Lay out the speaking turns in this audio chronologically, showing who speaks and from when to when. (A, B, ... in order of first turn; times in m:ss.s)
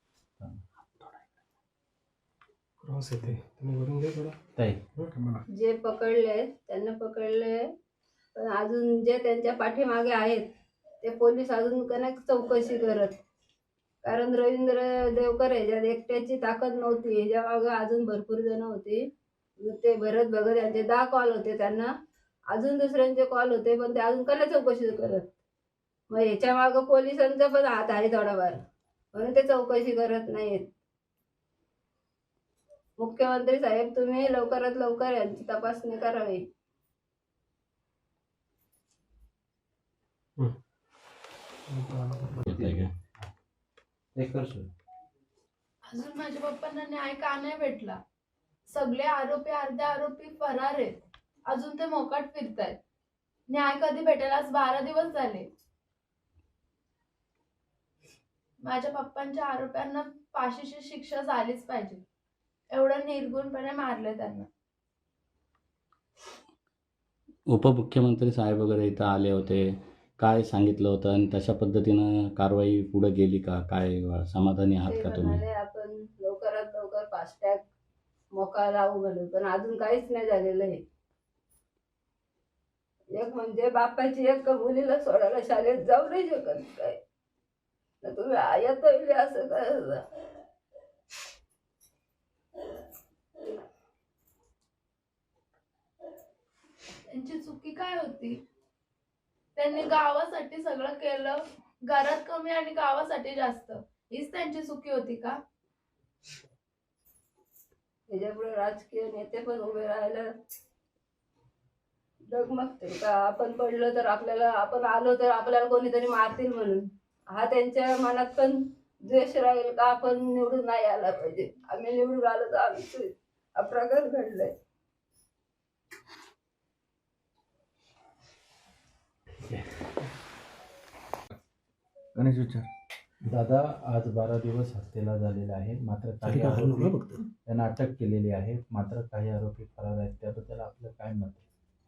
0:02.8-0:04.4 A
0:04.6-0:04.8 B
0:04.9-0:05.4 A
0:05.5-0:07.6 C
0:08.3-0:10.4 C
0:11.0-0:13.2 C
0:14.0-0:19.0 C
0:19.6-0:21.9 C
0:22.5-0:25.2 C
0:26.1-0:28.6 C
0:29.1-0:30.6 C
0:33.0-0:36.4 C
0:41.7-0:42.4 A
0:42.4-0:42.9 D
0:42.5-0:43.3 B
0:44.1-0:44.7 B
0:45.9-0:48.0 E
0:48.7-0:52.8 E
0:53.5-0:55.5 E
0:58.6-1:02.0 E
1:02.7-1:04.5 E
1:07.5-1:15.4 D
1:14.8-1:17.6 C
1:18.3-1:20.8 C
1:23.1-1:27.0 C
1:28.0-1:30.0 C
1:37.1-1:38.4 E
1:39.6-1:45.4 E
1:48.1-1:50.3 C
1:52.3-2:04.5 C
2:13.3-2:21.4 B
2:16.2-2:17.2 A